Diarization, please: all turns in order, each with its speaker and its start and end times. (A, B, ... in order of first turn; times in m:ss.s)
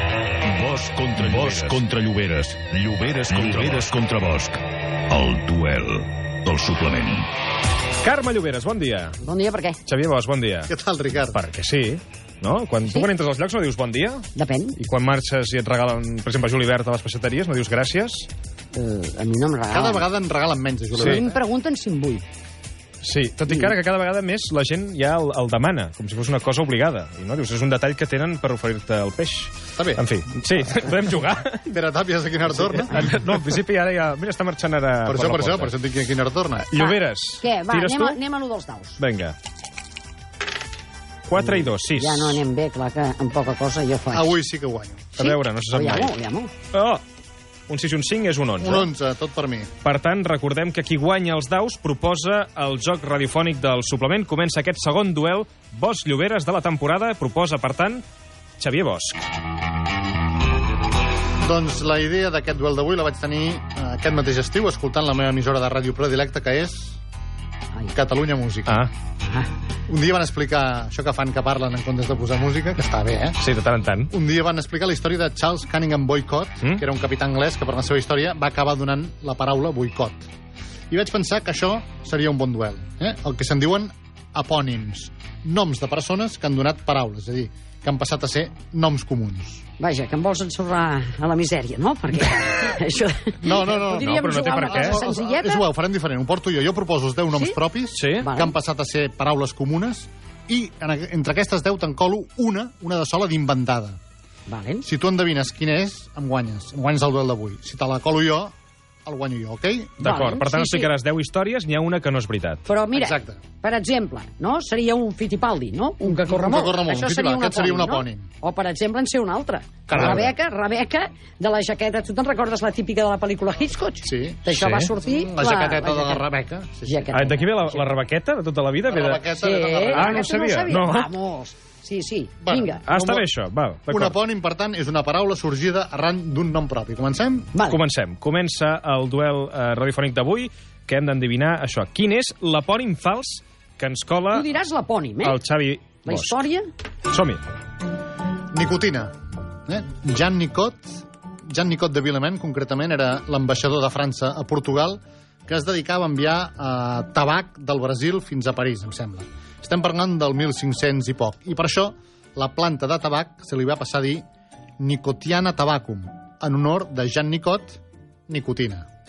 0:00.4-0:07.3 A
0:01.2-0:01.8 B
0:03.5-0:03.8 B
0:08.0-0:09.2 B
0:09.2-0:09.8 C
0:09.8-0:10.7 B
0:10.7-0:11.4 D
0:11.3-0:18.3 B
0:14.3-0:14.8 C
0:18.7-0:20.1 C
0:19.7-0:21.4 D
0:21.0-0:21.2 B
0:21.0-0:22.2 C
0:23.0-0:31.6 B
0:29.7-0:30.0 D
0:31.6-0:33.2 D
0:32.5-0:35.7 B
0:35.0-0:36.7 D
0:36.6-0:38.2 B
0:36.7-0:39.0 C
0:39.0-0:39.3 B
0:41.3-0:42.4 B
0:41.4-0:44.4 C
0:44.1-0:45.1 D
0:45.2-0:46.1 B
0:45.2-0:46.5 C
0:46.7-0:47.0 B
0:47.7-0:48.9 B
0:48.6-0:49.7 D
0:49.8-0:58.0 B
0:58.6-0:59.3 B
1:01.4-1:07.0 D
1:07.9-1:08.8 D
1:09.9-1:13.4 D
1:13.4-1:14.1 B
1:14.1-1:20.3 D
1:20.9-1:29.6 D
1:29.8-1:35.6 C
1:33.4-1:44.0 D
1:33.9-1:35.1 B
1:37.9-1:38.3 B
1:38.2-1:38.5 C
1:44.5-1:44.8 C
1:44.8-1:48.5 D
1:49.0-1:50.1 D
1:50.0-1:50.9 C
1:50.0-1:52.6 B
1:52.6-2:06.2 C
1:52.9-1:53.4 D
1:56.2-1:58.3 D
1:59.9-2:00.3 D
1:59.9-2:00.3 B
2:04.0-2:04.5 D
2:04.5-2:04.9 B
2:05.1-2:07.0 D
2:06.8-2:07.9 C
2:07.1-2:09.3 B
2:08.8-2:10.3 D
2:09.3-2:12.8 C
2:09.9-2:11.1 B
2:12.4-2:13.3 D
2:12.9-2:14.2 B
2:13.9-2:17.5 D
2:17.5-2:17.8 C
2:17.6-2:24.5 B
2:24.3-2:25.4 C
2:25.2-2:26.3 B
2:26.0-2:26.7 C
2:27.1-2:27.4 B
2:28.5-2:29.1 D
2:29.6-2:44.2 D
2:44.8-2:48.9 D